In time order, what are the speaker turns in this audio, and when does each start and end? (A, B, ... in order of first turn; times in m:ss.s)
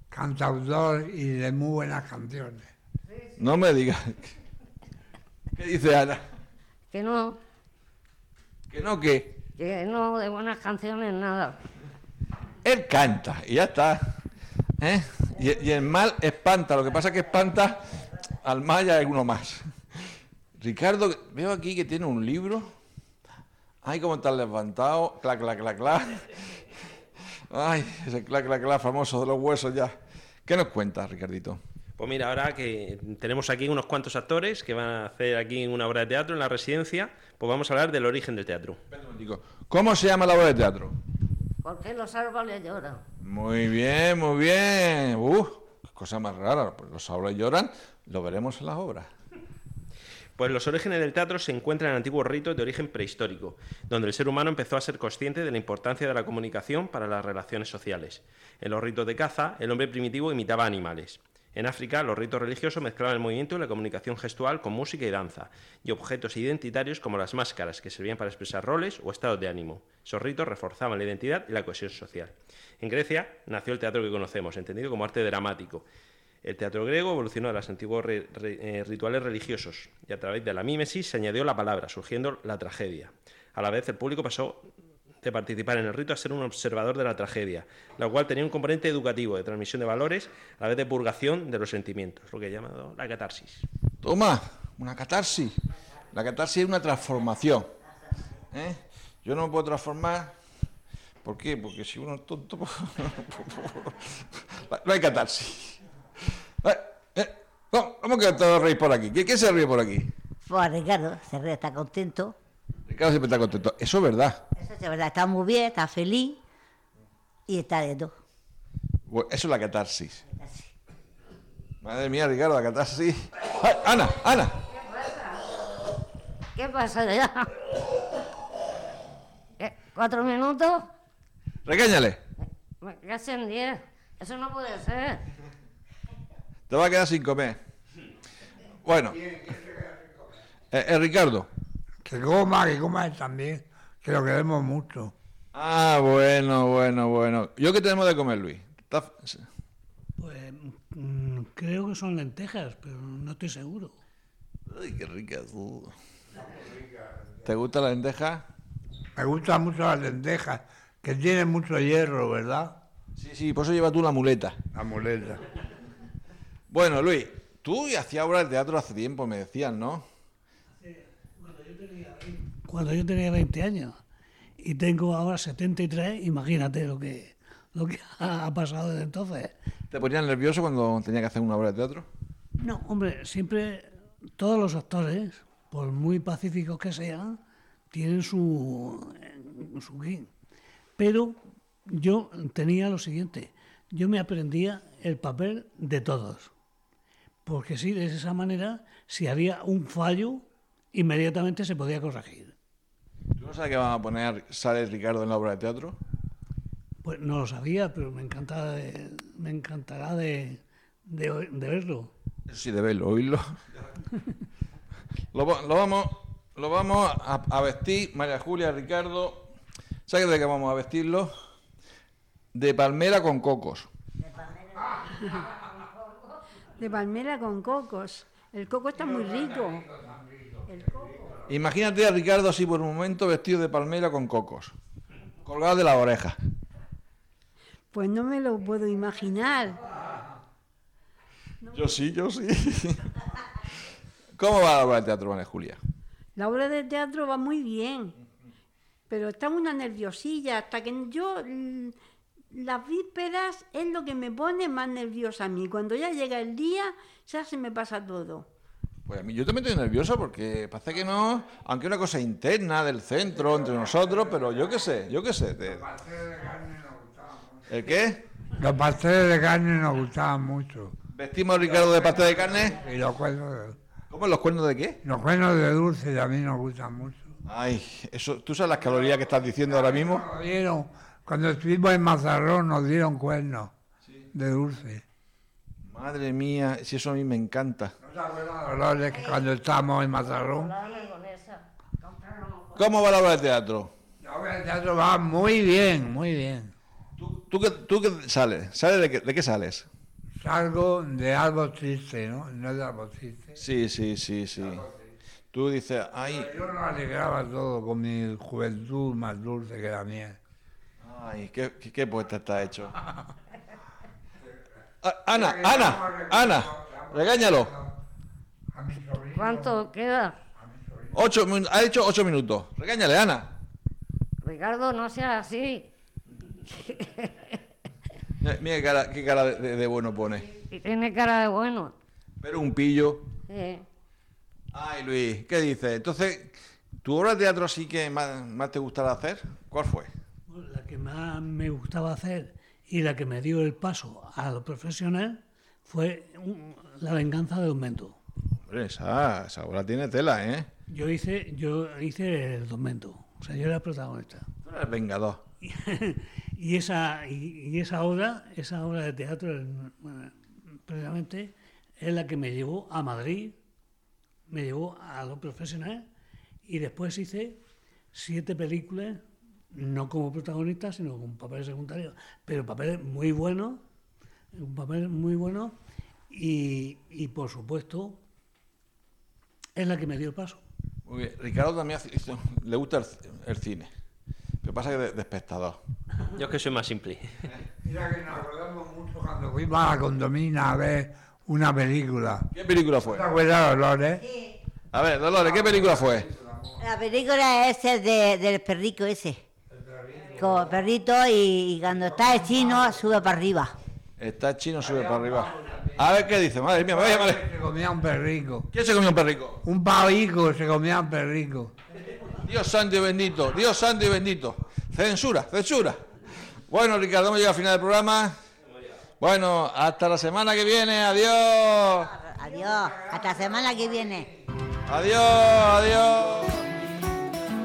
0:00.1-0:02.7 A
0:03.4-0:04.3 B
0:05.6-0:06.2 B
0:06.9-0:07.4 C
0:08.7-0:09.4 B
0:09.6-0:11.6 C
0:12.6-0:14.0 B
0:14.8-0:19.7 B
0:20.6-0:22.7 B
0:23.8-0:26.4 B
0:27.5-0:30.0 B
0:30.5-0:31.6 B
0:32.0-0:38.8 D
0:38.9-0:41.0 B
0:41.6-0:43.0 C
0:43.2-0:49.1 B
0:50.4-1:15.9 D
1:16.4-1:24.7 D
1:25.2-1:33.7 D
1:34.0-1:35.6 B
1:36.1-1:37.7 B
1:38.5-1:40.3 B
1:41.2-1:45.8 B
1:46.6-1:50.1 B
1:50.4-1:52.4 E
1:52.9-1:54.4 B
1:54.6-1:56.4 E
1:57.5-1:58.1 E
1:59.1-2:00.2 B
2:00.3-2:00.7 E
2:01.8-2:04.6 B
2:04.8-2:05.4 C
2:06.6-2:07.5 C
2:09.6-2:10.9 C
2:11.6-2:12.2 B
2:12.8-2:15.2 C
2:16.7-2:17.6 B
2:18.8-2:19.2 B
2:19.1-2:20.3 A
2:20.7-2:21.5 B
2:22.0-2:25.1 A
2:25.5-2:29.5 B
2:30.2-2:34.0 F
2:34.7-2:35.9 B
2:36.4-2:37.3 A
2:37.4-2:38.4 B
2:39.2-2:42.8 A
2:43.2-2:44.6 B
2:44.7-2:45.5 A
2:46.7-2:50.0 B
2:50.8-2:54.0 F
2:54.6-2:59.5 F
2:59.9-3:02.1 B
3:02.6-3:07.4 F
3:07.9-3:10.3 F
3:11.0-3:16.5 F
3:17.5-3:22.6 F
3:23.4-3:26.0 B
3:27.0-3:32.1 F
3:32.5-3:33.4 B
3:35.3-3:39.5 B
3:40.1-3:41.3 B
3:42.5-3:43.9 B
3:44.8-3:45.6 A
3:45.1-3:45.4 G
3:46.8-3:49.9 G
3:49.0-3:51.5 A
3:50.7-3:51.1 G
3:51.5-3:54.8 B
3:55.4-3:56.4 B
3:57.9-3:59.8 G
4:01.7-4:03.1 B
4:04.4-4:05.8 B
4:06.4-4:08.2 G
4:09.1-4:12.0 G
4:12.5-4:18.5 G
4:19.1-4:25.8 B
4:23.9-4:24.6 A
4:25.6-4:27.6 A
4:27.7-4:28.2 B
4:28.6-4:31.0 A
4:31.1-4:32.8 B
4:31.8-4:33.8 A
4:34.1-4:35.0 B
4:35.0-4:37.3 A
4:37.5-4:40.3 B
4:39.7-4:43.7 A
4:44.3-4:45.0 A
4:45.8-4:48.0 B
4:48.0-4:50.8 A
4:50.6-4:52.7 C
4:52.8-4:53.9 B
4:54.2-4:56.7 A
4:57.2-4:59.9 B
5:00.4-5:03.6 A
5:03.6-5:04.8 B
5:04.6-5:05.1 A
5:05.5-5:06.5 B
5:06.3-5:10.4 A
5:11.0-5:13.0 B
5:15.0-5:17.7 B
5:15.3-5:18.0 A
5:18.7-5:19.9 A
5:19.4-5:20.4 C
5:20.6-5:21.2 A
5:21.1-5:23.5 B
5:24.4-5:25.9 C
5:26.8-5:27.6 C
5:28.4-5:30.5 B
5:30.5-5:31.9 C
5:32.4-5:33.3 B
5:33.5-5:33.8 C
5:34.7-5:40.1 B
5:40.5-5:48.2 F
5:48.7-5:50.7 B
5:50.9-5:54.5 F
5:54.6-5:55.4 B
5:55.6-6:03.6 F
6:04.5-6:06.1 F
6:06.7-6:07.6 F
6:08.1-6:13.8 F
6:14.5-6:15.8 F
6:16.3-6:18.2 F
6:19.8-6:20.6 F
6:21.1-6:23.9 B
6:24.6-6:25.8 B
6:26.4-6:27.3 D
6:27.8-6:32.5 A
6:32.5-6:33.2 B
6:33.0-6:34.2 A
6:34.9-6:36.3 B
6:35.3-6:36.8 A
6:36.8-6:39.4 E
6:39.7-6:40.8 A
6:40.4-6:43.7 E
6:42.2-6:42.9 A
6:44.2-6:47.4 B
6:44.8-6:46.1 A
6:46.8-6:48.7 A
6:48.7-6:49.6 B
6:49.6-6:51.7 A
6:52.3-6:56.0 B
6:56.7-6:58.4 B
6:59.2-7:02.1 B
7:02.0-7:04.3 E
7:02.5-7:04.2 A
7:04.9-7:06.7 B